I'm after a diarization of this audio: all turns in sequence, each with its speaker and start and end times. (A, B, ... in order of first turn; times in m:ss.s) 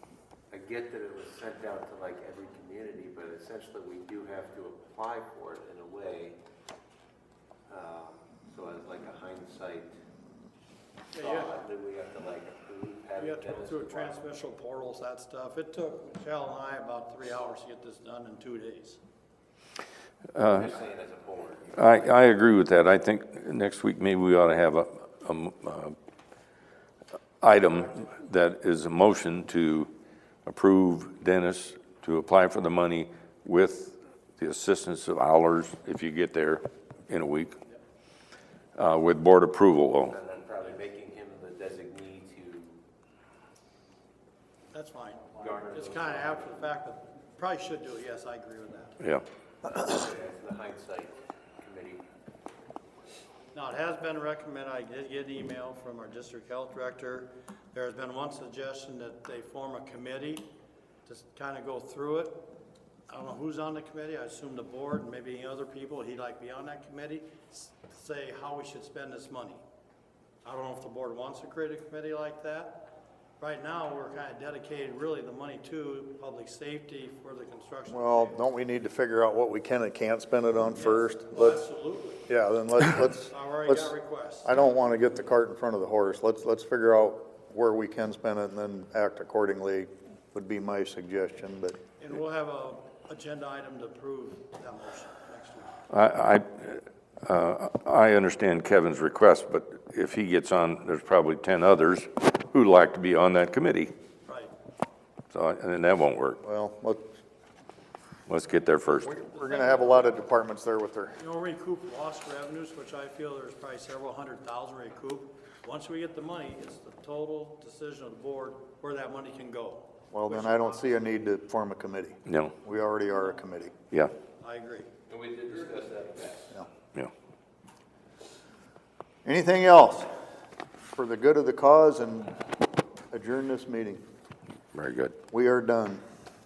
0:00.5-0:06.4 A
0:07.7-0:09.9 A
0:11.1-0:11.6 B
0:11.2-0:14.2 A
0:13.2-0:19.0 B
0:20.4-0:20.7 C
0:20.4-0:22.2 A
0:21.8-0:26.0 C
0:27.4-0:29.9 C
0:30.5-0:37.6 C
0:38.8-0:40.2 C
0:40.0-0:42.8 A
0:44.7-0:49.0 B
0:45.4-0:46.5 A
0:49.0-0:49.2 C
0:49.7-0:52.0 A
0:53.5-1:00.5 B
1:01.1-1:02.5 B
1:03.1-1:09.6 B
1:10.4-1:18.4 B
1:17.9-1:21.6 D
1:20.8-1:22.3 B
1:22.3-1:31.8 D
1:23.3-1:24.5 B
1:32.0-1:35.8 B
1:35.9-1:43.9 C
1:44.3-1:44.5 B
1:45.3-1:46.4 C
1:46.4-1:47.0 D
1:48.3-1:49.1 C
1:49.0-1:51.2 D
1:51.2-2:00.9 B
2:00.1-2:03.7 D
2:02.3-2:02.6 C
2:04.4-2:04.9 B
2:05.1-2:06.6 A
2:09.2-2:10.2 D
2:10.9-2:12.4 D
2:13.1-2:14.0 D
2:14.7-2:15.2 C
2:15.3-2:16.0 D